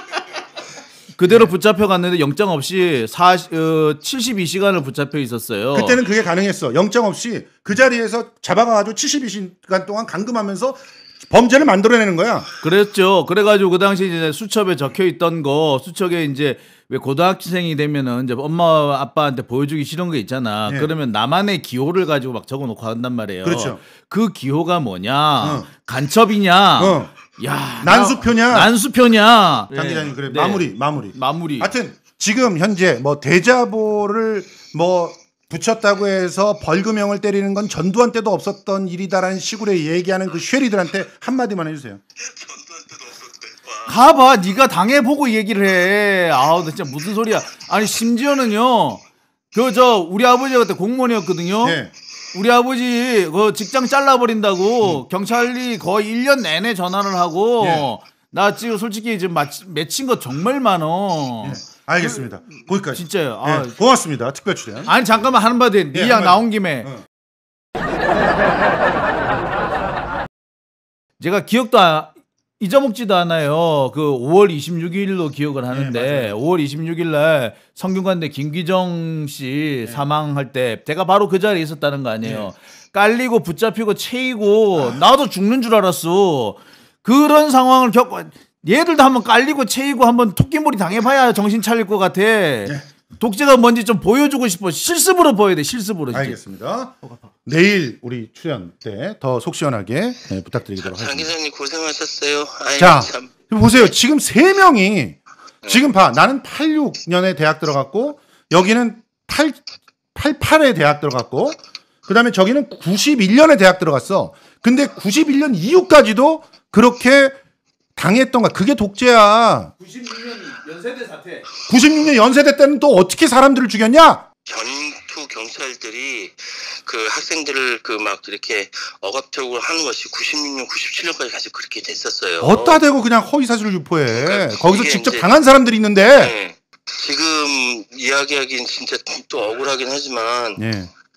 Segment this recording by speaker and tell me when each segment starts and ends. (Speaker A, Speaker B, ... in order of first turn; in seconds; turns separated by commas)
Speaker A: 1.2-6.0, Speaker B: 5.7-12.5, Speaker A: 12.6-31.7, Speaker B: 23.4-23.8, Speaker B: 25.4-25.7, Speaker B: 26.8-27.1, Speaker B: 27.8-28.7, Speaker B: 29.7-42.0, Speaker C: 42.2-43.9, Speaker A: 43.8-51.8, Speaker B: 51.6-51.9, Speaker A: 52.3-62.2, Speaker B: 57.6-57.9, Speaker B: 61.4-64.9, Speaker A: 62.9-63.8, Speaker A: 64.9-66.9, Speaker B: 65.9-67.0, Speaker A: 71.2-96.4, Speaker B: 75.7-76.3, Speaker B: 82.2-82.5, Speaker B: 96.1-101.3, Speaker C: 100.8-103.9, Speaker B: 102.8-109.6, Speaker B: 110.1-117.3, Speaker B: 117.9-119.7, Speaker A: 119.8-121.5, Speaker B: 121.7-124.2, Speaker C: 124.5-132.8, Speaker B: 132.4-136.3, Speaker C: 134.1-135.3, Speaker C: 136.2-140.6, Speaker B: 140.6-140.9